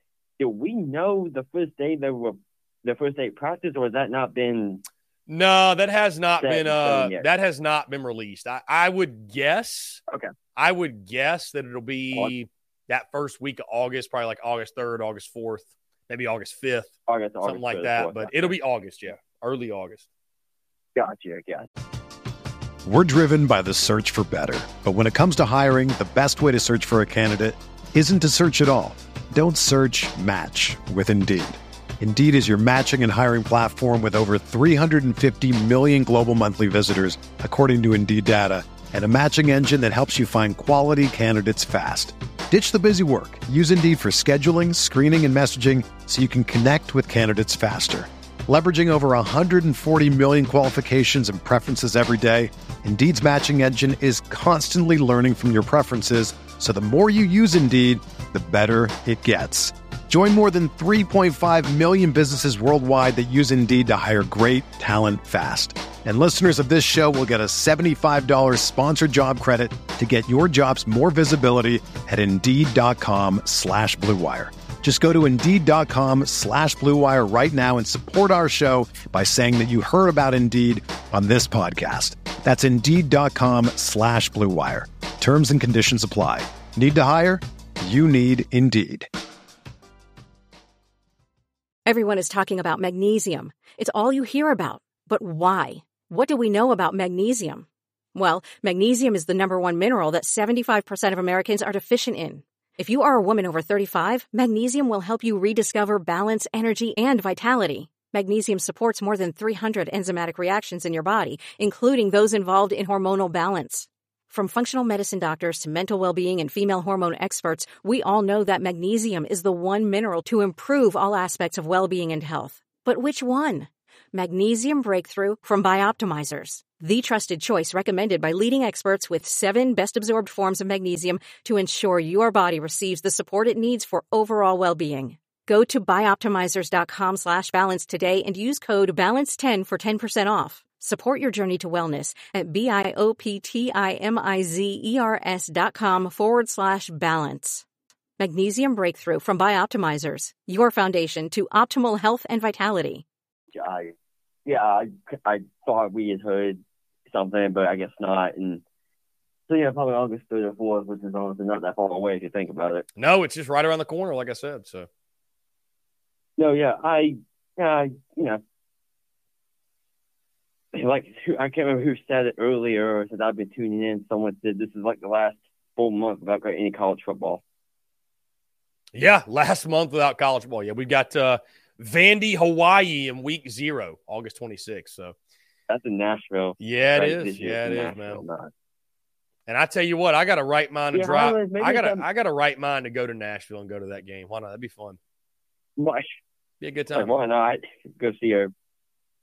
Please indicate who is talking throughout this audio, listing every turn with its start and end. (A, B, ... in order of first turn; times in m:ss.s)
0:00.4-0:04.8 A
0:05.3-0:10.0 B
0:06.4-0:07.2 A
0:10.5-0:16.9 B
0:17.1-0:18.6 A
0:17.4-0:20.0 B
0:21.0-0:21.7 A
0:22.8-1:29.1 C
1:31.8-2:27.6 D
2:28.2-2:33.0 D
2:33.5-2:33.9 A
2:34.4-2:38.6 A
2:39.5-2:42.8 A
2:43.0-2:44.9 B
2:46.4-2:48.4 A
2:50.7-2:57.4 A
2:58.9-3:05.1 B
3:05.7-3:08.5 A
3:06.6-3:08.2 B
3:09.5-3:15.0 B
3:10.9-3:12.0 A
3:15.8-3:16.2 A
3:16.6-3:17.1 B
3:16.9-3:18.5 A